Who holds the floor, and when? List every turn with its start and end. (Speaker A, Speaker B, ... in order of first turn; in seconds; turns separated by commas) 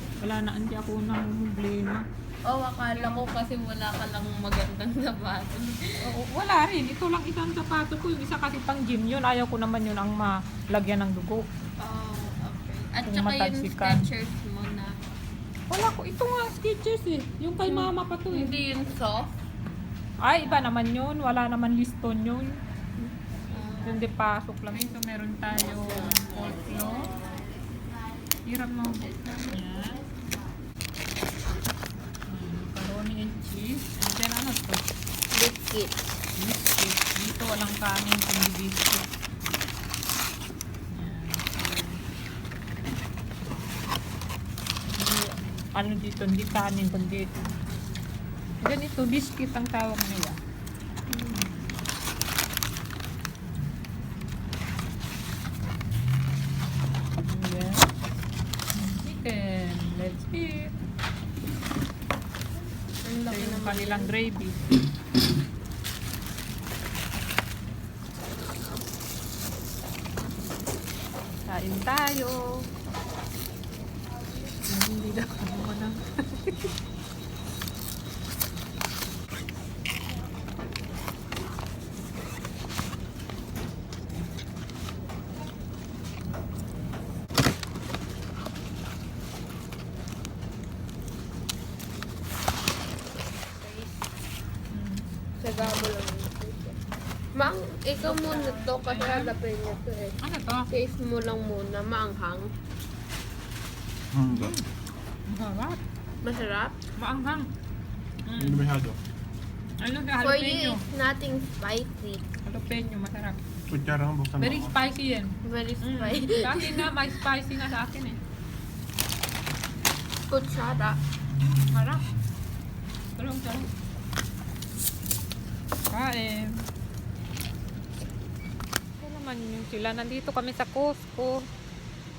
Speaker A: 0.2-2.0, Speaker B: 2.4-6.1, Speaker A: 2.9-3.2, Speaker A: 6.0-11.5, Speaker B: 11.8-15.0, Speaker A: 13.0-14.0, Speaker A: 15.7-18.6, Speaker B: 17.7-19.4, Speaker A: 20.2-23.1, Speaker B: 23.5-24.0, Speaker A: 23.8-27.1, Speaker B: 25.6-28.2, Speaker A: 28.4-30.0, Speaker B: 29.0-30.3, Speaker A: 32.3-34.9, Speaker B: 35.3-35.9, Speaker A: 36.4-39.1, Speaker A: 40.9-42.0, Speaker A: 44.9-47.3, Speaker A: 48.6-50.4, Speaker A: 51.1-51.5, Speaker A: 57.3-57.9, Speaker A: 58.7-60.7, Speaker B: 63.0-64.1, Speaker A: 63.1-64.7, Speaker A: 71.5-72.7, Speaker A: 74.6-76.5, Speaker B: 93.3-94.0, Speaker A: 94.7-95.9, Speaker B: 95.4-96.8, Speaker B: 97.3-100.2, Speaker A: 98.0-99.4, Speaker A: 100.2-100.7, Speaker B: 100.7-102.5, Speaker C: 104.1-104.5, Speaker A: 104.3-104.7, Speaker A: 105.3-105.8, Speaker B: 106.2-106.8, Speaker A: 107.0-107.5, Speaker A: 108.2-108.7, Speaker C: 108.4-109.0, Speaker A: 109.8-110.8, Speaker B: 110.2-112.2, Speaker A: 112.4-113.4, Speaker C: 113.7-114.7, Speaker A: 114.4-118.2, Speaker B: 115.4-116.9, Speaker B: 120.3-121.0, Speaker A: 121.6-122.0, Speaker A: 123.2-123.7, Speaker A: 125.9-126.6, Speaker A: 129.0-131.5